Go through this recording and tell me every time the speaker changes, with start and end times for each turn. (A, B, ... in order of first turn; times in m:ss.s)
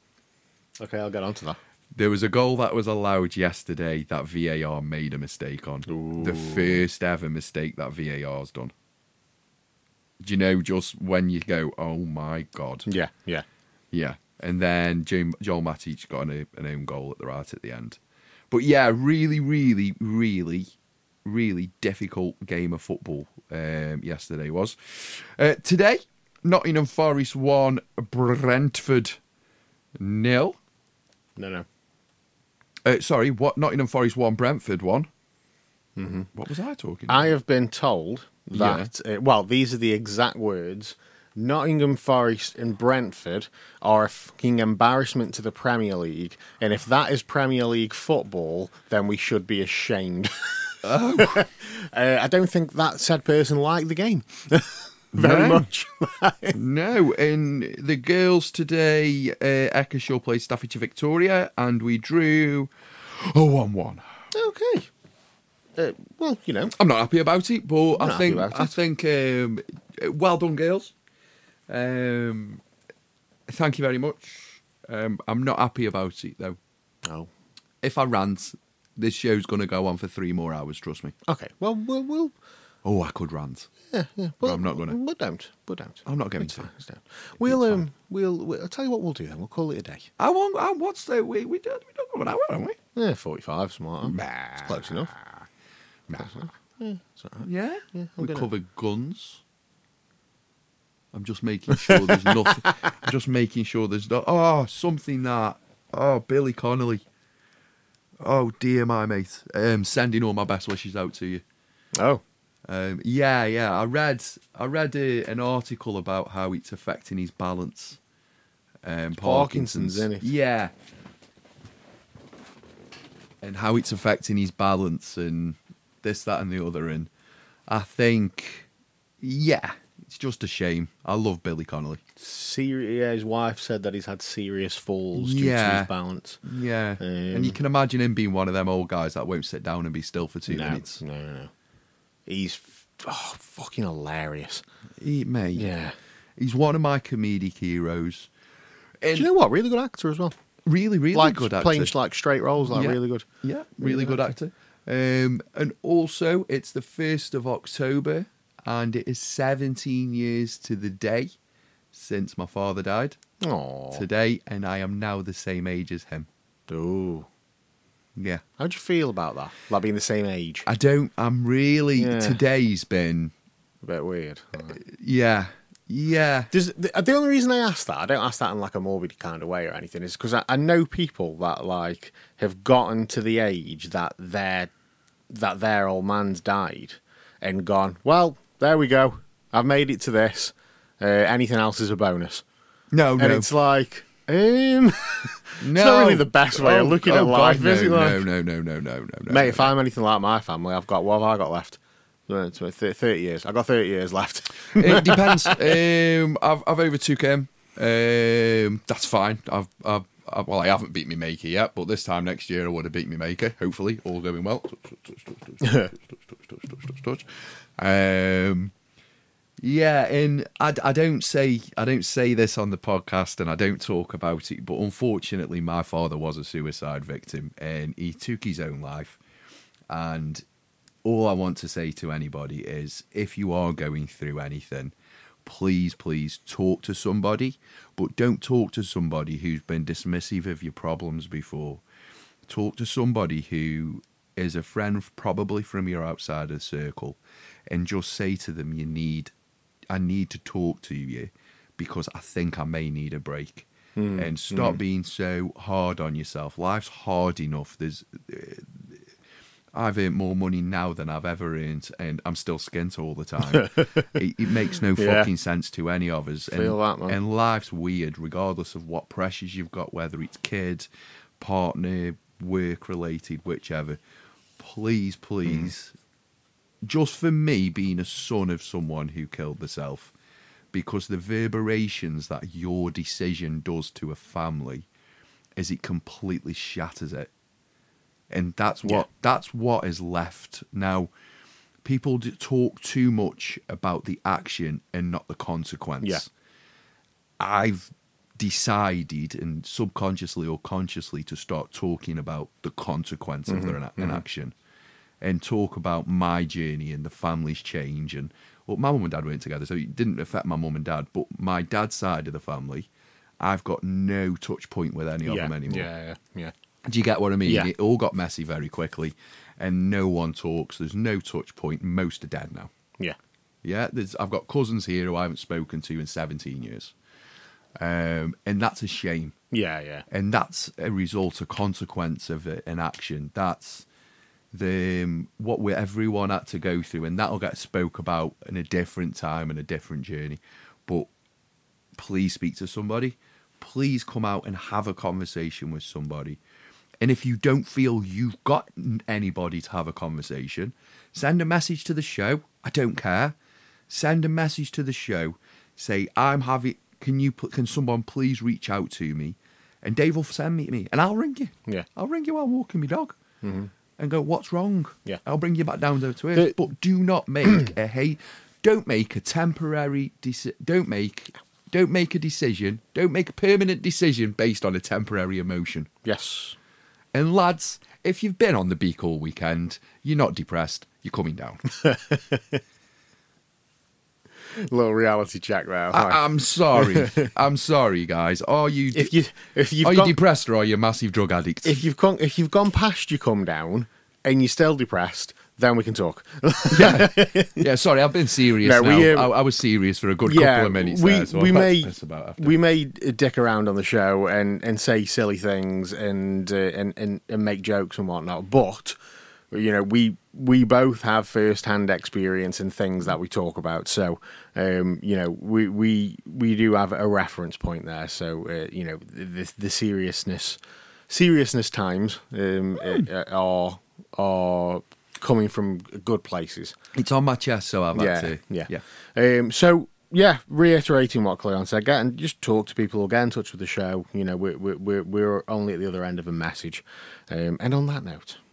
0:00.8-0:01.6 A
0:01.9-0:08.7 B
0:05.9-0:06.8 A
0:10.2-0:12.9 B
0:12.8-0:13.4 A
0:13.9-0:18.0 B
0:18.5-0:20.7 B
0:21.2-0:29.2 B
0:30.0-0:30.6 B
0:31.4-0:31.6 A
0:32.8-0:35.1 B
0:36.0-0:36.3 A
0:36.3-0:37.3 B
0:37.1-0:56.6 A
0:38.5-0:38.9 B
0:50.8-0:51.5 B
0:55.1-0:55.6 B
0:56.5-1:04.0 B
1:04.3-1:04.9 A
1:05.8-1:06.7 A
1:06.7-1:10.9 B
1:08.0-1:08.8 A
1:11.7-1:12.6 B
1:13.5-1:16.6 B
1:17.0-1:17.3 A
1:17.8-1:21.1 B
1:21.3-1:22.3 A
1:22.8-1:23.7 B
1:23.9-1:30.1 A
1:24.4-1:25.0 B
1:26.0-1:26.7 B
1:27.4-1:27.8 B
1:30.2-1:32.8 B
1:32.9-1:35.2 A
1:34.0-1:35.2 B
1:36.1-1:36.3 B
1:36.2-1:38.4 A
1:37.4-1:39.4 B
1:41.1-1:47.0 B
1:41.7-1:42.9 A
1:48.2-1:51.4 B
1:51.9-1:52.2 A
1:52.6-1:58.0 B
1:58.8-2:00.7 B
1:59.2-2:00.3 A
2:03.4-2:07.1 B
2:07.7-2:08.7 B
2:09.2-2:12.0 B
2:12.2-2:16.4 A
2:15.1-2:15.9 B
2:16.4-2:21.0 B
2:17.0-2:17.6 A
2:20.5-2:21.5 A
2:22.3-2:24.6 A
2:25.0-2:25.7 B
2:25.5-2:26.0 A
2:26.4-2:28.3 B
2:29.0-2:29.3 B
2:29.1-2:30.3 A
2:30.6-2:31.9 B
2:31.1-2:33.2 A
2:32.7-2:41.3 B
2:33.8-2:34.3 A
2:41.9-2:43.2 B
2:43.4-2:44.0 A
2:43.9-2:46.3 B
2:46.7-2:47.3 A
2:48.2-2:48.4 B
2:48.6-2:50.7 A
2:50.6-2:53.3 B
2:52.0-2:52.4 A
2:53.8-2:54.8 A
2:54.7-2:56.5 B
2:56.5-3:04.7 A
3:05.3-3:12.4 A
3:12.9-3:13.5 B
3:13.2-3:18.3 A
3:15.6-3:19.7 B
3:19.3-3:25.8 A
3:24.7-3:38.7 B
3:35.6-3:35.9 A
3:39.6-3:49.2 B
3:49.9-3:50.4 B
3:51.0-3:54.9 B
3:55.4-4:01.8 B
4:02.5-4:09.3 B
4:09.9-4:19.0 B
4:14.0-4:14.8 A
4:19.7-4:30.9 B
4:23.5-4:24.1 A
4:25.0-4:25.3 A
4:26.5-4:27.2 A
4:31.4-4:34.0 B
4:34.6-4:35.9 B
4:35.4-4:35.7 A
4:36.8-4:40.1 B
4:40.7-4:44.8 B
4:45.6-4:47.3 B
4:48.3-4:51.1 B
4:51.8-4:56.3 B
4:57.4-5:04.5 B
5:03.5-5:04.2 A
5:05.2-5:12.9 B
5:13.4-5:15.9 B
5:15.2-5:16.5 A
5:16.8-5:22.7 B
5:23.6-5:26.9 B
5:27.8-5:29.3 B
5:29.5-5:30.0 A
5:30.1-5:33.8 B
5:34.5-5:41.1 B
5:42.0-5:46.4 B
5:47.0-5:53.3 B
5:53.9-6:03.2 B
6:03.4-6:03.7 A
6:04.0-6:15.9 B
6:16.0-6:16.6 A
6:17.1-6:21.6 B
6:21.7-6:22.6 A
6:24.5-6:27.3 A
6:25.9-6:29.1 B
6:28.9-6:30.1 A
6:29.8-6:31.8 B
6:31.6-6:37.7 A
6:36.7-6:42.6 B
6:38.6-6:39.3 A
6:40.2-6:49.0 A
6:49.5-7:00.6 A
7:01.1-7:06.7 A
7:06.9-7:08.8 B
7:07.9-7:18.4 A